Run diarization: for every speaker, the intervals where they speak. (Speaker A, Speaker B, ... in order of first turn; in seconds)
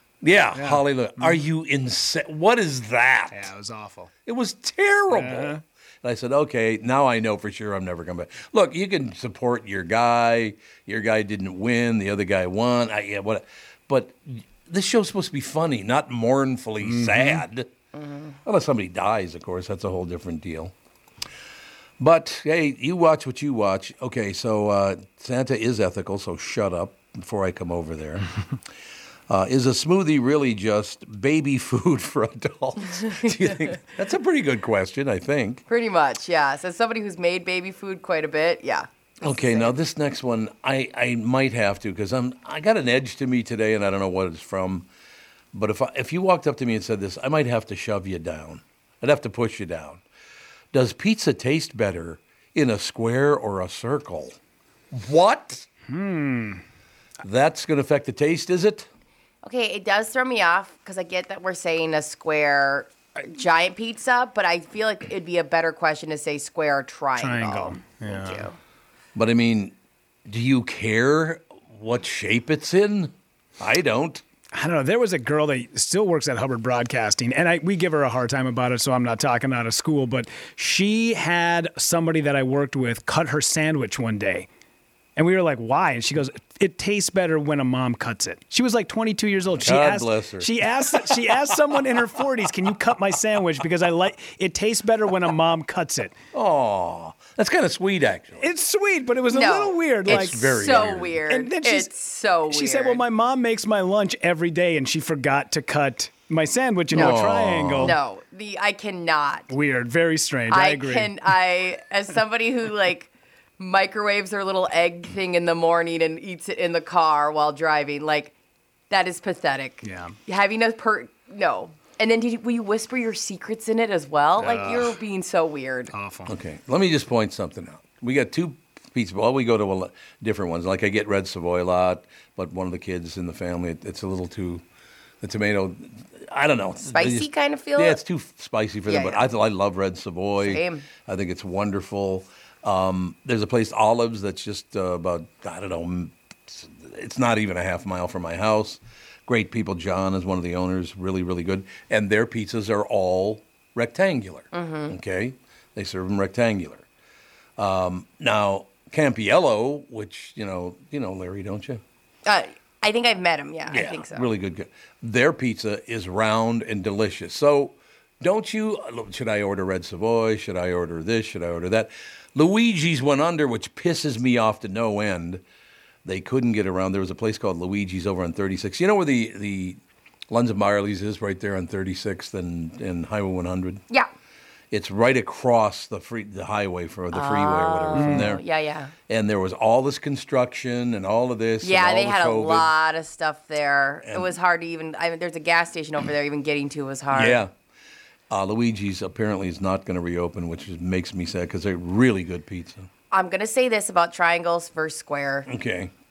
Speaker A: 0.2-3.5, 4.2-17.7, 18.4-20.7, 22.0-28.3, 29.3-35.6, 39.2-44.9, 45.5-50.0, 50.7-54.4, 54.9-55.6, 57.2-58.9, 69.1-69.7, 70.3-74.2, 89.5-90.5, 96.3-98.4, 100.0-101.2, 106.9-107.9, 126.3-134.6, 135.2-156.8, 157.6-161.8, 163.7-175.4, 176.0-179.8, 180.3-183.8, 184.7-188.4, 189.1-192.7, 194.0-194.3, 197.1-197.5, 198.3-202.9, 205.5-205.9
Speaker B: 0.5-1.4, 3.3-4.1, 5.1-5.6, 16.8-17.4, 55.9-56.6, 67.2-68.5, 74.5-84.5, 85.2-96.1, 98.4-100.4, 101.3-101.9, 102.5-108.0, 109.5-111.1, 119.8-120.1, 124.4-124.9, 125.9-126.3, 187.9-188.3
Speaker C: 17.9-18.4, 35.7-39.7, 59.4-68.5, 99.3-103.0, 106.9-107.2, 107.8-109.5, 110.5-118.3, 118.9-125.9, 136.9-138.0, 138.9-139.2, 140.4-140.8, 154.5-154.9, 162.2-164.2, 187.1-188.9, 191.6-197.4, 203.1-205.5